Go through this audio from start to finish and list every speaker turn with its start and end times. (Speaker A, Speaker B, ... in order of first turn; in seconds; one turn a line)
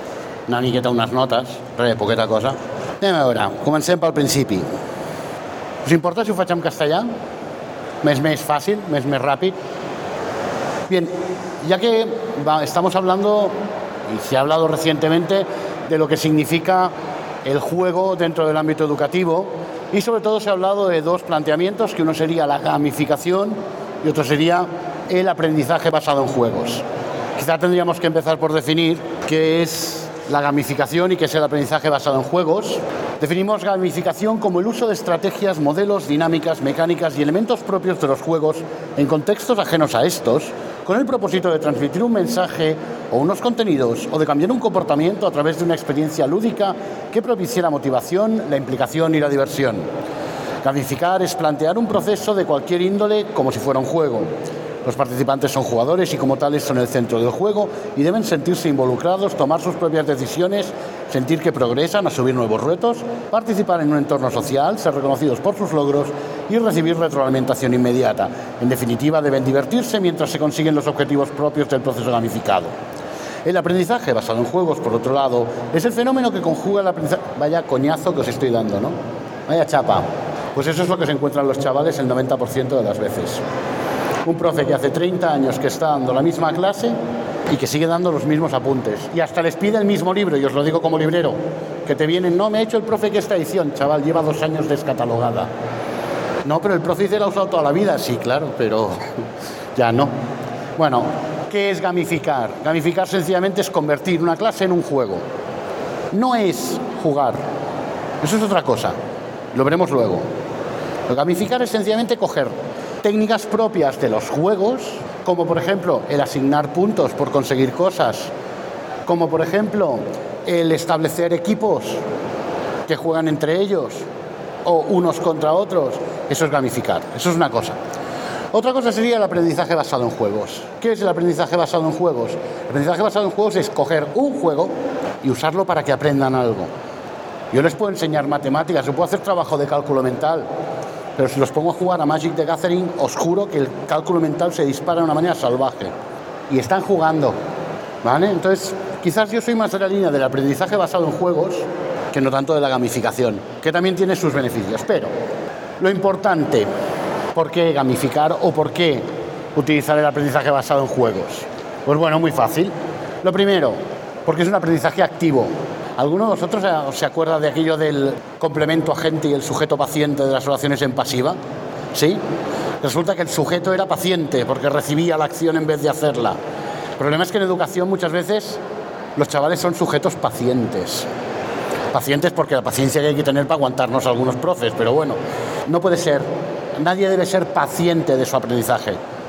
Speaker A: 0.5-4.7
Speaker A: 5.8-7.1
Speaker A: 8.0-9.6
Speaker A: 10.9-16.9
Speaker A: 17.4-26.9
Speaker A: 27.4-49.9
Speaker A: 50.6-54.3
Speaker A: 54.8-72.8
Speaker A: 73.5-83.4
Speaker A: 84.2-95.5
Speaker A: 96.5-99.2
Speaker A: 99.8-100.1
Speaker A: 100.8-105.2
Speaker A: 106.1-107.4
Speaker A: 108.2-109.0
Speaker A: 109.5-110.3
Speaker A: 111.1-118.3
Speaker A: 119.1-122.0
Speaker A: 122.9-124.1
Speaker A: 124.7-127.8
Speaker A: 128.5-136.7
Speaker A: 137.5-140.5
Speaker A: 141.2-145.9
Speaker A: 146.5-147.4
Speaker A: 148.0-155.1
Speaker A: 155.8-156.7
Speaker A: 157.3-171.4
Speaker A: 171.9-172.2
Speaker A: 172.8-176.4
Speaker A: 177.0-178.6
Speaker A: 179.2-181.1
Speaker A: 181.9-189.0